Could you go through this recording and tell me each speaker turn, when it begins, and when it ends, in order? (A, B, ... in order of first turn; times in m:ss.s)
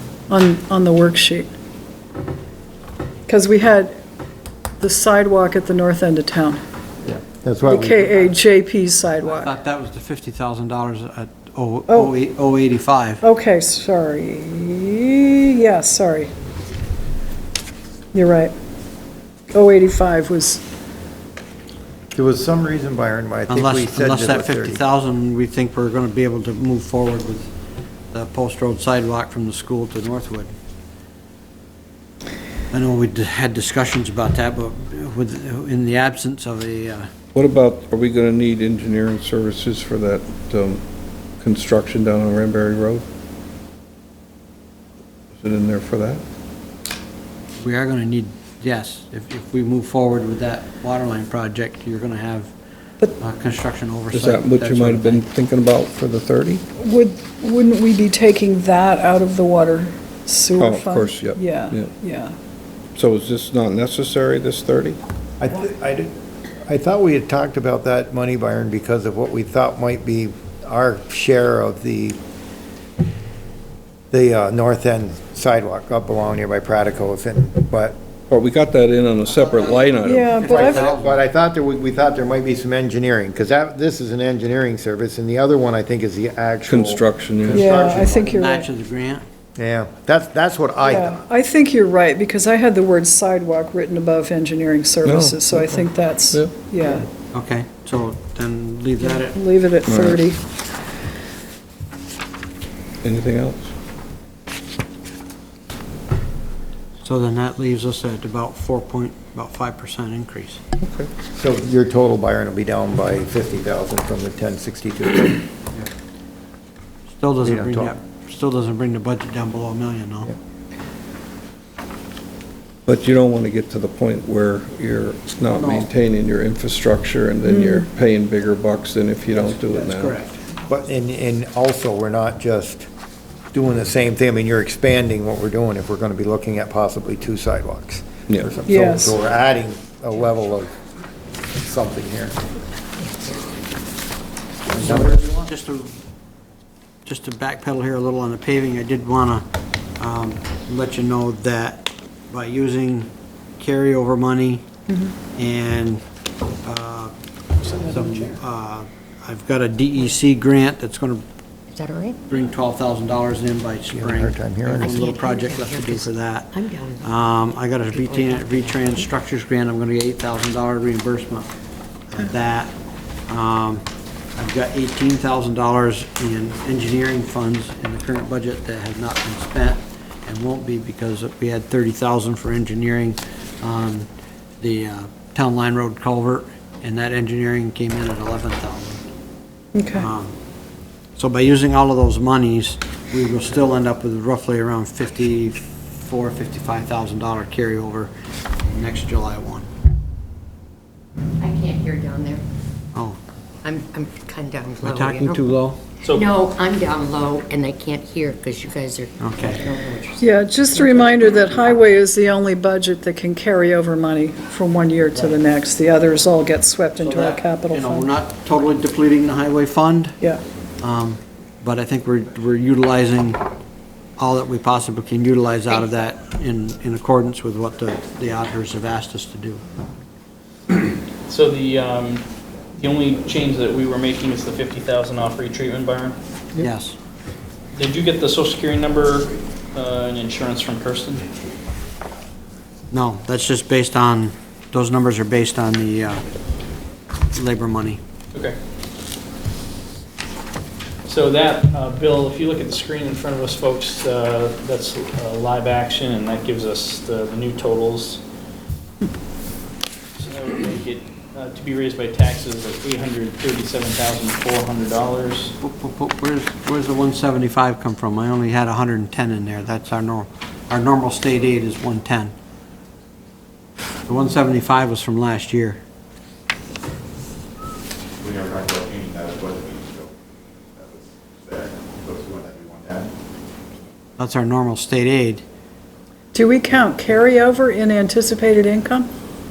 0:00.3-0:01.5 A
0:03.3-0:03.9 A
0:04.8-0:06.6 A
0:07.0-0:08.2 B
0:07.6-0:09.5 A
0:09.2-0:13.2 C
0:11.9-0:12.1 A
0:13.2-0:16.3 A
0:18.1-0:18.5 A
0:19.5-0:20.6 A
0:22.1-0:24.8 B
0:23.5-0:27.5 C
0:28.1-0:30.5 C
0:32.7-0:37.1 C
0:37.3-0:40.8 D
0:41.4-0:43.0 D
0:45.3-0:46.2 D
0:47.6-0:52.5 C
0:53.2-0:55.2 C
0:54.1-0:56.6 D
0:56.8-1:02.3 A
1:00.6-1:01.9 D
1:03.0-1:05.0 D
1:05.4-1:12.2 B
1:14.1-1:18.0 B
1:18.3-1:20.4 D
1:19.4-1:19.7 C
1:20.0-1:20.8 A
1:20.3-1:21.2 C
1:20.4-1:28.2 B
1:26.6-1:27.6 D
1:27.5-1:28.7 A
1:27.5-1:29.2 C
1:29.6-1:31.2 B
1:30.8-1:37.0 A
1:35.0-1:36.7 D
1:37.3-1:39.4 C
1:39.0-1:40.4 A
1:39.8-1:40.2 D
1:43.0-1:43.7 D
1:47.0-1:50.6 C
1:50.8-1:51.1 D
1:51.3-1:55.5 B
1:57.1-2:00.3 C
1:57.4-1:57.9 B
2:02.9-2:10.2 D
2:05.5-2:05.9 C
2:07.4-2:07.9 A
2:09.3-2:10.4 C
2:10.7-2:12.9 B
2:13.5-2:20.7 B
2:18.3-2:18.5 D
2:18.7-2:19.2 A
2:21.6-2:22.4 B
2:24.7-2:25.9 C
2:24.7-2:25.5 B
2:27.0-2:29.4 C
2:30.0-2:34.6 C
2:35.4-2:36.0 C
2:36.6-2:37.1 C
2:37.7-2:41.2 C
2:41.7-2:42.2 E
2:42.3-2:51.5 C
2:43.9-2:45.0 B
2:44.8-2:49.1 E
2:52.1-2:52.7 C
2:53.3-2:53.8 C
2:54.4-3:04.1 C
3:04.6-3:09.0 C
3:09.7-3:10.0 A
3:09.9-3:10.3 C
3:11.2-3:18.1 C
3:18.6-3:19.7 C
3:21.4-3:22.4 E
3:23.6-3:25.4 E
3:24.8-3:25.8 C
3:26.0-3:31.2 E
3:29.2-3:29.6 C
3:30.2-3:38.1 A
3:37.0-3:40.2 C
3:40.8-3:43.4 C
3:44.2-3:49.6 C
3:51.3-3:56.2 F
3:56.6-3:57.0 C
3:57.7-4:01.2 F
4:02.9-4:06.2 C
4:07.3-4:08.0 C
4:11.0-4:18.2 F
4:20.2-4:25.5 F
4:25.6-4:32.3 C
4:34.1-4:35.8 C
4:38.2-4:40.1 G
4:40.8-4:43.1 G
4:44.2-4:45.4 C
4:46.3-4:49.1 A